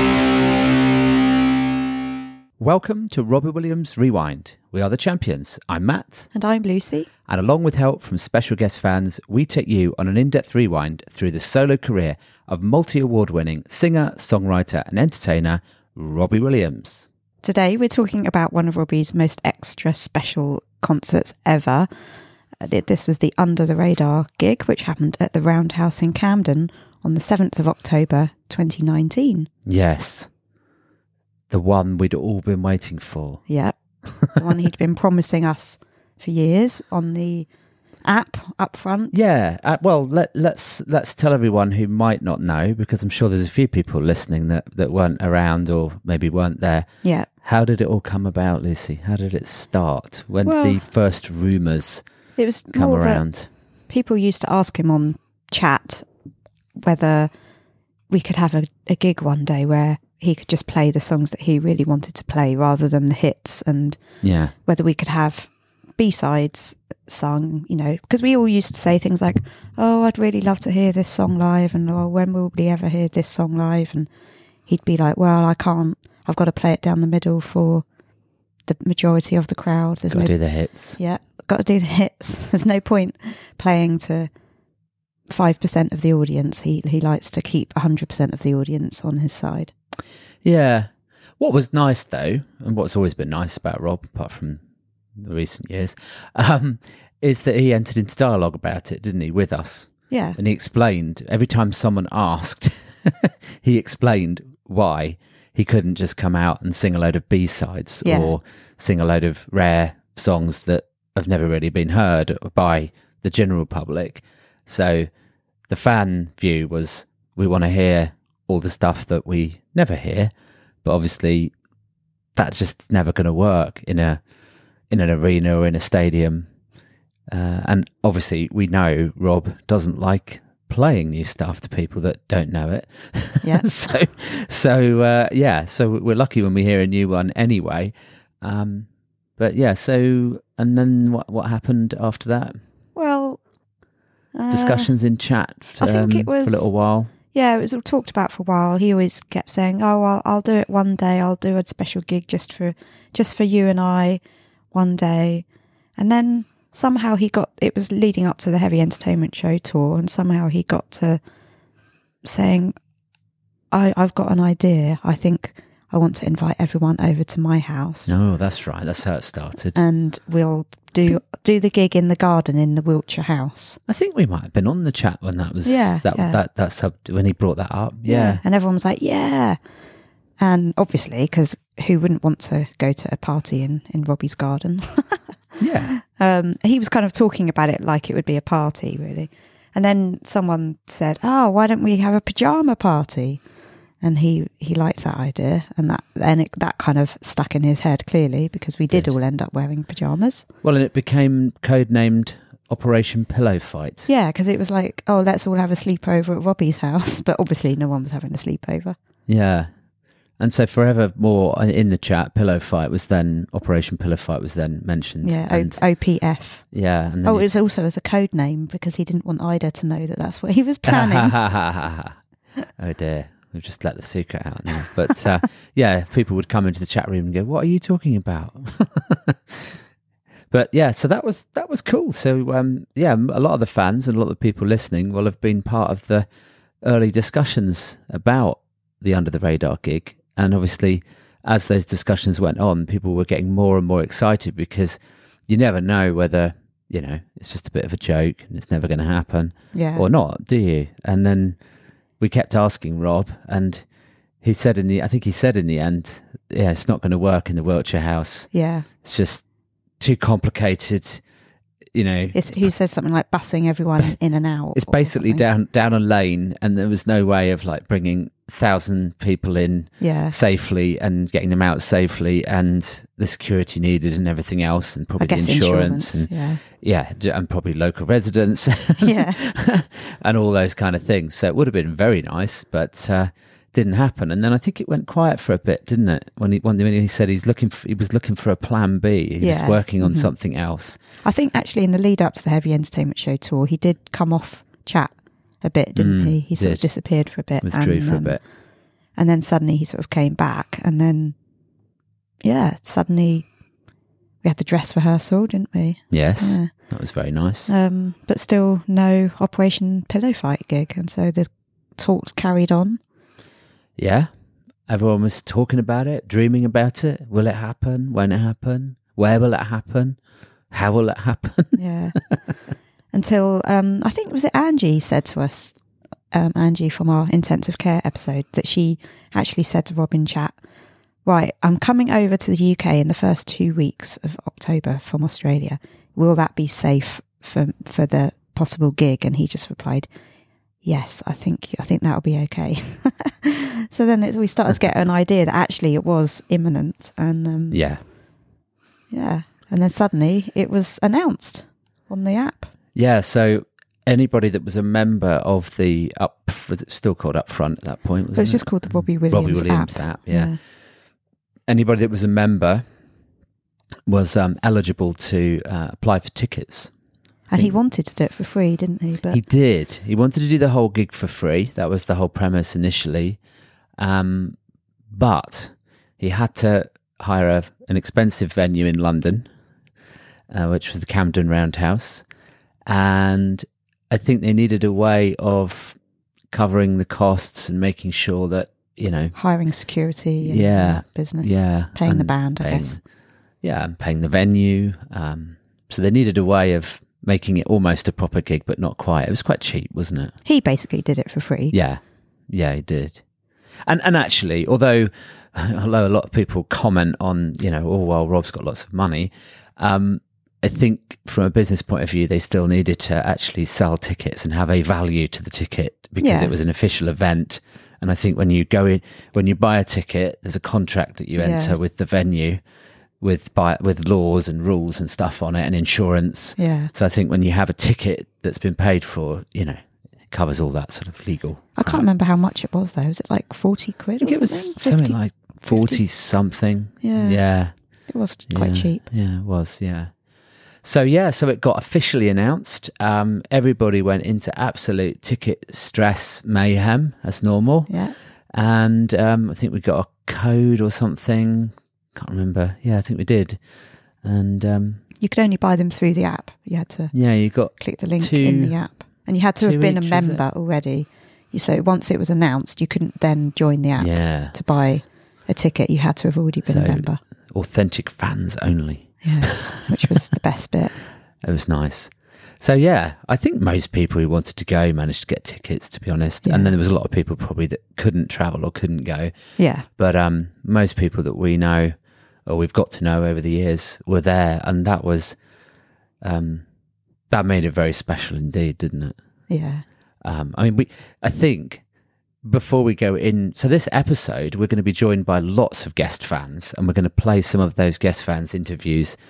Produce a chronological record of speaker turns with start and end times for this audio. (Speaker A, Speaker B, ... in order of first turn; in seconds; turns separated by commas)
Speaker A: 2.6-6.3, Speaker B: 6.3-7.1, Speaker A: 7.3-17.1, Speaker B: 17.4-21.9, Speaker B: 22.6-29.5, Speaker A: 29.7-30.3, Speaker A: 31.5-33.4, Speaker B: 33.5-33.8, Speaker B: 34.3-37.5, Speaker B: 38.0-39.2, Speaker A: 39.1-52.0, Speaker B: 50.4-50.8, Speaker B: 52.4-53.3, Speaker A: 52.7-53.5, Speaker B: 53.9-56.1, Speaker B: 56.8-57.3, Speaker B: 58.1-64.0, Speaker A: 64.2-64.5, Speaker B: 64.7-74.1, Speaker B: 74.7-77.8, Speaker B: 78.7-80.4, Speaker A: 80.1-81.0, Speaker B: 81.0-84.3, Speaker B: 85.3-89.7, Speaker A: 90.4-94.6, Speaker A: 95.2-115.1, Speaker B: 100.1-100.4, Speaker B: 108.0-108.4, Speaker A: 115.7-120.3, Speaker A: 120.8-121.5, Speaker A: 122.4-124.2, Speaker A: 124.9-126.5, Speaker A: 127.3-142.6, Speaker B: 133.4-133.7, Speaker B: 143.0-143.4, Speaker B: 144.3-144.9, Speaker A: 144.5-147.1, Speaker B: 145.8-146.7, Speaker B: 147.3-154.2, Speaker B: 154.7-155.4, Speaker B: 156.0-161.2, Speaker B: 162.2-162.8, Speaker B: 163.7-168.1, Speaker A: 168.1-169.8, Speaker B: 169.8-173.8, Speaker A: 173.9-178.4, Speaker B: 175.7-176.4, Speaker B: 178.1-179.6, Speaker B: 180.4-185.2, Speaker A: 185.6-185.9, Speaker B: 185.9-193.4, Speaker B: 194.0-200.4, Speaker A: 200.6-204.1, Speaker B: 204.1-209.0, Speaker A: 209.3-209.7, Speaker A: 210.4-215.8, Speaker B: 215.2-216.7, Speaker A: 216.7-217.5, Speaker B: 217.2-221.3, Speaker A: 220.9-222.2, Speaker A: 222.8-229.6, Speaker A: 230.5-236.3, Speaker A: 236.8-251.6, Speaker B: 249.7-250.1, Speaker A: 252.2-253.8, Speaker A: 254.4-258.5, Speaker B: 258.5-258.9, Speaker A: 259.0-259.4, Speaker A: 260.0-261.2, Speaker A: 261.9-262.7, Speaker B: 262.3-265.4, Speaker A: 264.7-291.0, Speaker B: 270.0-270.4, Speaker B: 275.2-276.6, Speaker B: 279.0-279.4, Speaker B: 289.4-290.3, Speaker B: 291.2-298.4, Speaker A: 295.9-296.9, Speaker A: 297.6-298.4, Speaker B: 299.2-301.4, Speaker B: 302.4-303.5, Speaker B: 304.4-306.7, Speaker A: 306.1-307.7, Speaker B: 307.7-313.0, Speaker A: 314.0-314.3, Speaker A: 314.9-320.2, Speaker A: 320.7-321.8, Speaker B: 321.8-322.2, Speaker B: 323.1-325.8, Speaker B: 326.3-330.6, Speaker B: 331.2-340.1, Speaker B: 340.8-347.9, Speaker A: 347.7-348.0, Speaker B: 349.1-352.7, Speaker A: 352.9-360.5, Speaker B: 358.3-360.6, Speaker A: 361.7-362.9, Speaker A: 364.1-366.9, Speaker B: 367.5-369.4, Speaker A: 369.3-373.4, Speaker A: 374.0-374.6, Speaker A: 375.1-379.5, Speaker A: 380.5-382.2, Speaker A: 382.9-386.0, Speaker A: 386.5-389.4, Speaker B: 389.4-393.0, Speaker A: 390.4-393.0, Speaker A: 393.6-400.3, Speaker B: 400.4-401.7, Speaker A: 401.7-403.2, Speaker A: 403.9-422.6, Speaker B: 416.2-416.5, Speaker B: 421.4-421.8, Speaker A: 423.2-432.1, Speaker B: 426.6-426.9, Speaker B: 431.8-436.0, Speaker A: 434.2-437.7, Speaker B: 437.0-437.4, Speaker B: 438.1-439.0, Speaker A: 438.5-440.1, Speaker A: 440.8-447.9, Speaker B: 447.9-448.1, Speaker A: 448.5-453.6, Speaker A: 454.2-455.0, Speaker B: 455.2-467.2, Speaker A: 457.1-458.8, Speaker A: 459.6-460.4, Speaker A: 464.0-465.0, Speaker A: 466.6-469.6, Speaker B: 469.2-470.9, Speaker A: 471.4-479.3, Speaker B: 476.4-476.7, Speaker B: 479.6-479.9, Speaker A: 480.0-485.4, Speaker A: 486.2-486.7, Speaker A: 487.3-489.2, Speaker B: 489.5-489.9, Speaker A: 490.2-491.8, Speaker A: 492.4-499.2